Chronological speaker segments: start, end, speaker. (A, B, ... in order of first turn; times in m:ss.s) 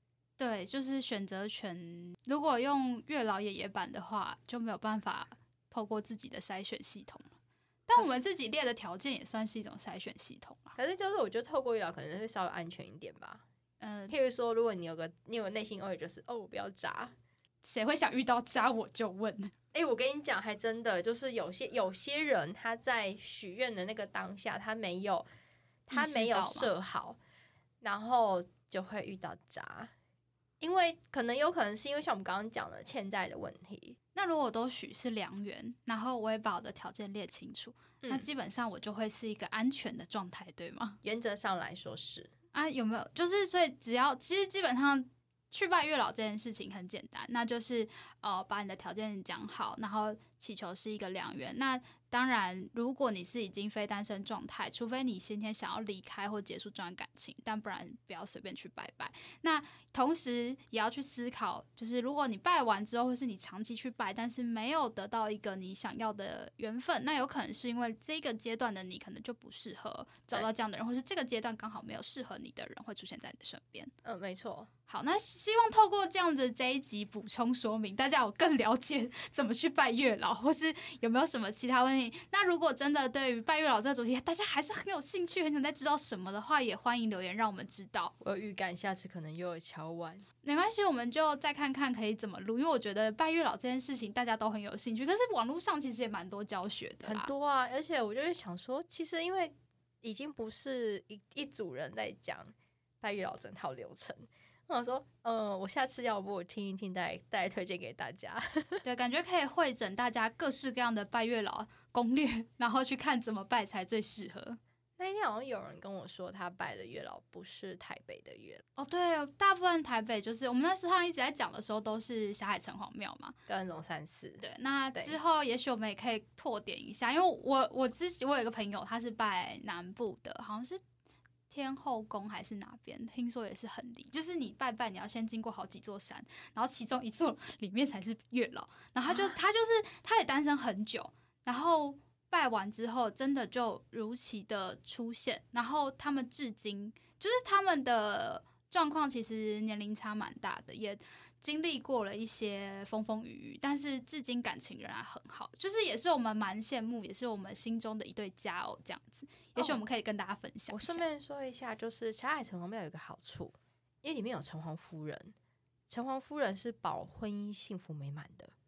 0:00.4-0:07.3 A
0:07.9-0:10.8 A
0:08.0-0:08.2 B
0:10.8-0:13.4 B
0:13.8-0:14.1 A
0:14.1-0:17.1 B
0:17.6-0:19.5 A
0:19.7-0:25.2 B
0:25.9-0:27.2 B
0:25.9-0:26.7 A
0:27.8-0:29.9 B
0:30.6-0:34.0 B
0:34.1-0:41.0 A
0:38.0-0:38.3 B
0:41.0-0:42.3 B
0:42.5-1:13.9 A
1:14.0-1:14.7 B
1:14.9-1:28.1 A
1:28.2-1:30.2 B
1:30.4-1:37.3 A
1:37.0-1:48.8 B
1:48.8-1:54.6 A
1:55.0-1:58.6 B
1:58.8-2:03.4 A
2:03.5-2:05.2 B
2:04.4-2:10.8 A
2:11.5-2:41.0 A
2:39.6-2:39.8 B
2:40.7-2:45.3 B
2:45.9-2:48.5 B